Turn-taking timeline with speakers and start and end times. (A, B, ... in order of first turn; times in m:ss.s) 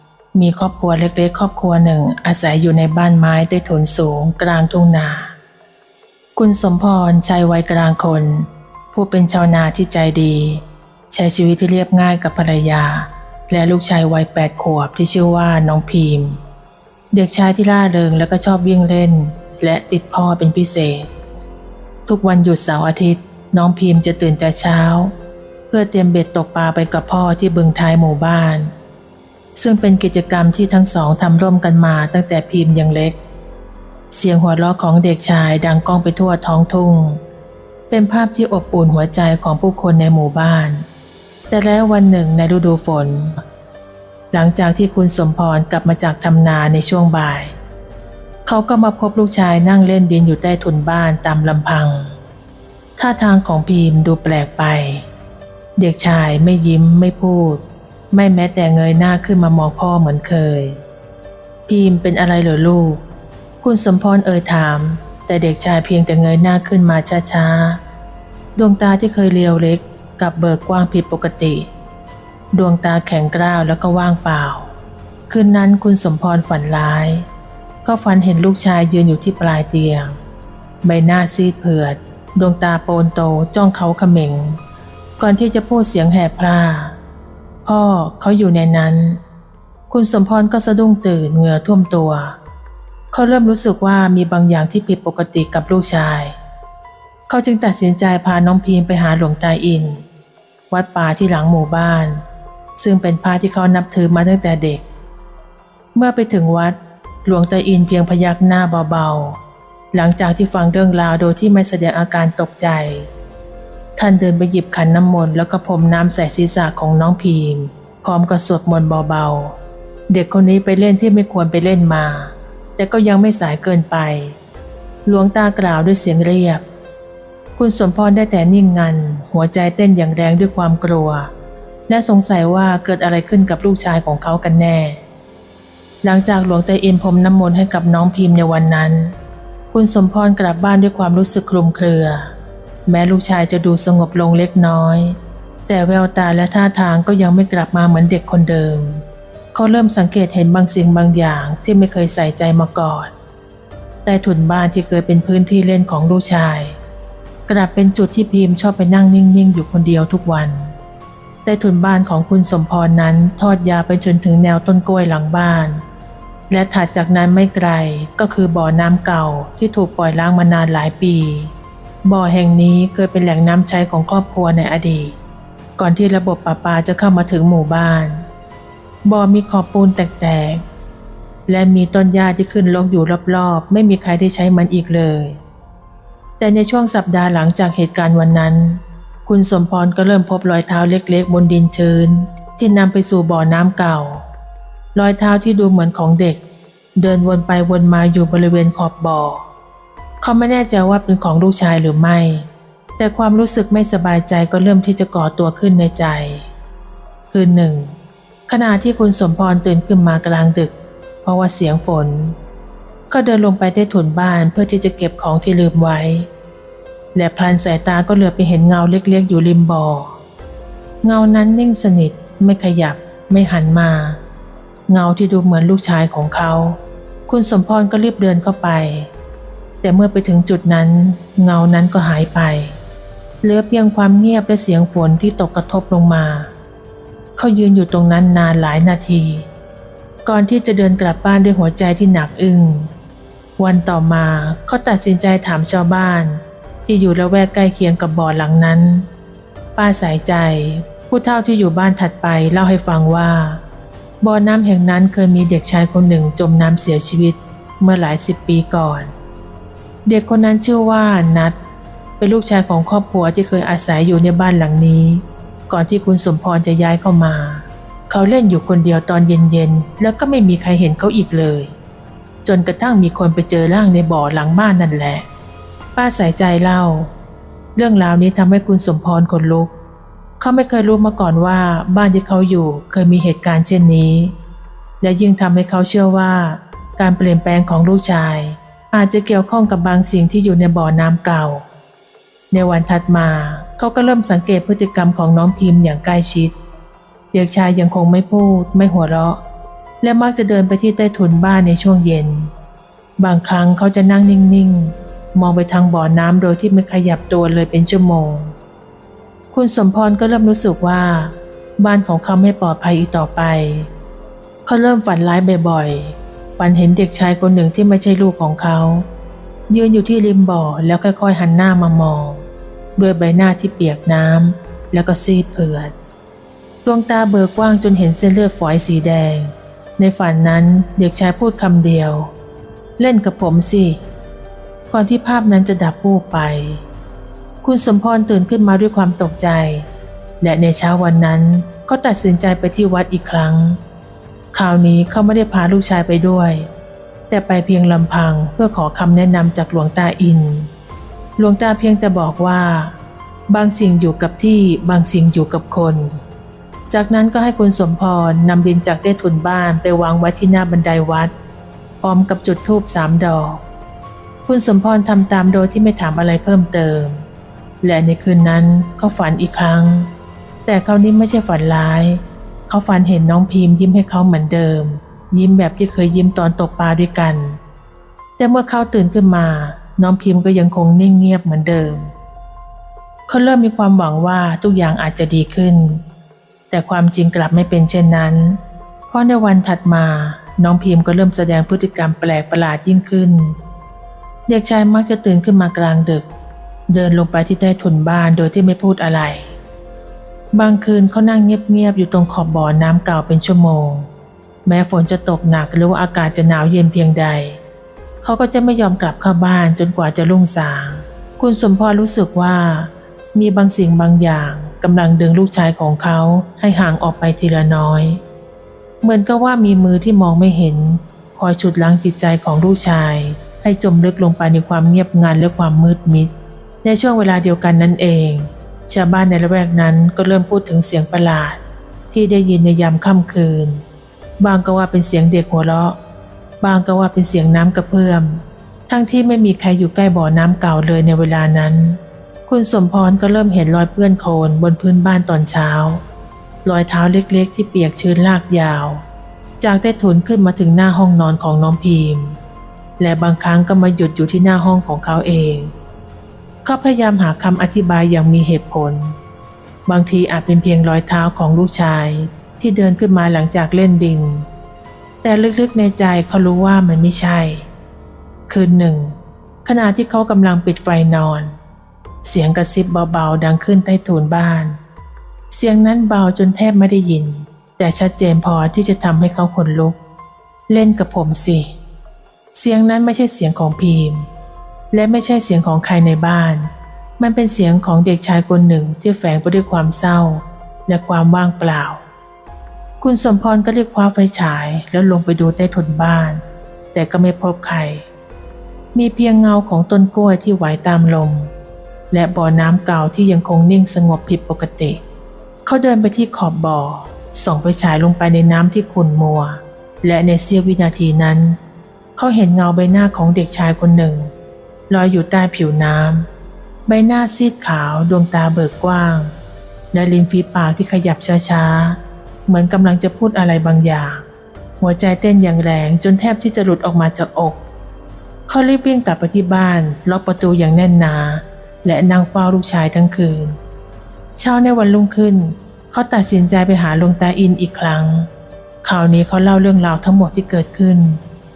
0:00.3-0:05.3 A
0:06.4-0:16.4 A
0:17.1-0:21.1 A
0:22.1-0:25.1 A
0:25.7-0:28.7 A
0:29.6-0:33.2 A
0:34.1-0:37.2 A
0:37.9-0:40.8 A
0:41.5-0:43.4 A
0:44.3-0:47.5 A
0:48.4-0:52.2 A
0:53.0-0:55.1 A
0:55.8-1:00.8 A
1:01.7-1:03.0 A
1:03.6-1:07.8 A
1:08.6-1:11.7 A
1:12.5-1:14.7 A
1:15.3-1:17.3 A
1:17.8-1:20.2 A
1:20.8-1:24.6 A
1:25.2-1:27.0 A
1:27.6-1:29.2 A
1:29.9-1:32.4 A
1:33.1-1:36.4 A
1:37.3-1:40.0 A
1:40.7-1:42.2 A
1:42.8-1:44.8 A
1:45.9-1:49.4 A
1:49.9-1:53.1 A
1:54.0-1:59.6 A
2:00.1-2:04.4 A
2:05.1-2:06.6 A
2:07.6-2:11.3 A
2:11.9-2:15.0 A
2:16.0-2:19.1 A
2:19.7-2:22.3 A
2:22.9-2:29.0 A
2:29.5-2:33.1 A
2:34.0-2:36.8 A
2:37.5-2:40.7 A
2:41.4-2:45.8 A
2:46.5-2:51.5 A
2:52.0-2:55.2 A
2:55.8-2:58.2 A
2:59.0-3:00.6 A
3:01.5-3:05.4 A
3:06.4-3:14.2 A
3:14.9-3:16.4 A
3:17.0-3:19.5 A
3:20.2-3:26.5 A
3:27.3-3:27.9 A
3:28.5-3:32.4 A
3:33.1-3:36.3 A
3:37.1-3:40.2 A
3:41.0-3:44.2 A
3:44.9-3:49.1 A
3:49.8-3:52.8 A
3:53.4-3:56.5 A
3:57.4-3:59.5 A
4:00.2-4:02.9 A
4:03.6-4:09.0 A
4:09.8-4:13.6 A
4:14.2-4:19.1 A
4:20.0-4:21.5 A
4:22.2-4:31.7 A
4:32.4-4:35.2 A
4:36.0-4:37.1 A
4:37.8-4:39.7 A
4:40.4-4:44.3 A
4:45.0-4:51.6 A
4:52.5-4:56.5 A
4:57.3-4:59.4 A
5:00.0-5:02.5 A
5:03.2-5:08.5 A
5:09.5-5:13.9 A
5:14.6-5:19.1 A
5:19.7-5:22.4 A
5:23.0-5:25.9 A
5:26.8-5:32.3 A
5:33.0-5:34.0 A
5:34.9-5:36.8 A
5:37.6-5:39.8 A
5:40.4-5:43.8 A
5:44.5-5:46.7 A
5:47.3-5:50.7 A
5:51.4-5:52.9 A
5:53.5-5:56.1 A
5:56.9-6:01.3 A
6:02.0-6:03.6 A
6:04.5-6:07.2 A
6:07.8-6:10.1 A
6:10.6-6:17.6 A
6:18.4-6:22.1 A
6:23.3-6:26.0 A
6:26.7-6:33.6 A
6:34.5-6:36.2 A
6:36.9-6:39.6 A
6:40.5-6:44.1 A
6:44.6-6:47.6 A
6:48.2-6:58.2 A
6:59.0-7:06.3 A
7:06.8-7:11.6 A
7:12.1-7:13.8 A
7:14.4-7:16.0 A
7:16.6-7:26.0 A
7:26.6-7:29.0 A
7:29.6-7:32.4 A
7:33.0-7:35.7 A
7:36.6-7:39.2 A
7:39.9-7:44.5 A
7:45.2-7:47.7 A
7:48.5-7:51.6 A
7:52.2-7:54.8 A
7:55.5-8:00.0 A
8:00.7-8:01.7 A
8:02.5-8:04.3 A
8:04.9-8:12.0 A
8:13.0-8:16.4 A
8:16.9-8:18.1 A
8:18.9-8:21.5 A
8:22.1-8:25.0 A
8:25.6-8:31.6 A
8:32.2-8:34.3 A
8:34.9-8:36.2 A
8:36.9-8:39.3 A
8:39.9-8:44.2 A
8:44.8-8:47.6 A
8:48.5-8:53.6 A
8:54.4-8:58.3 A
8:58.8-9:01.2 A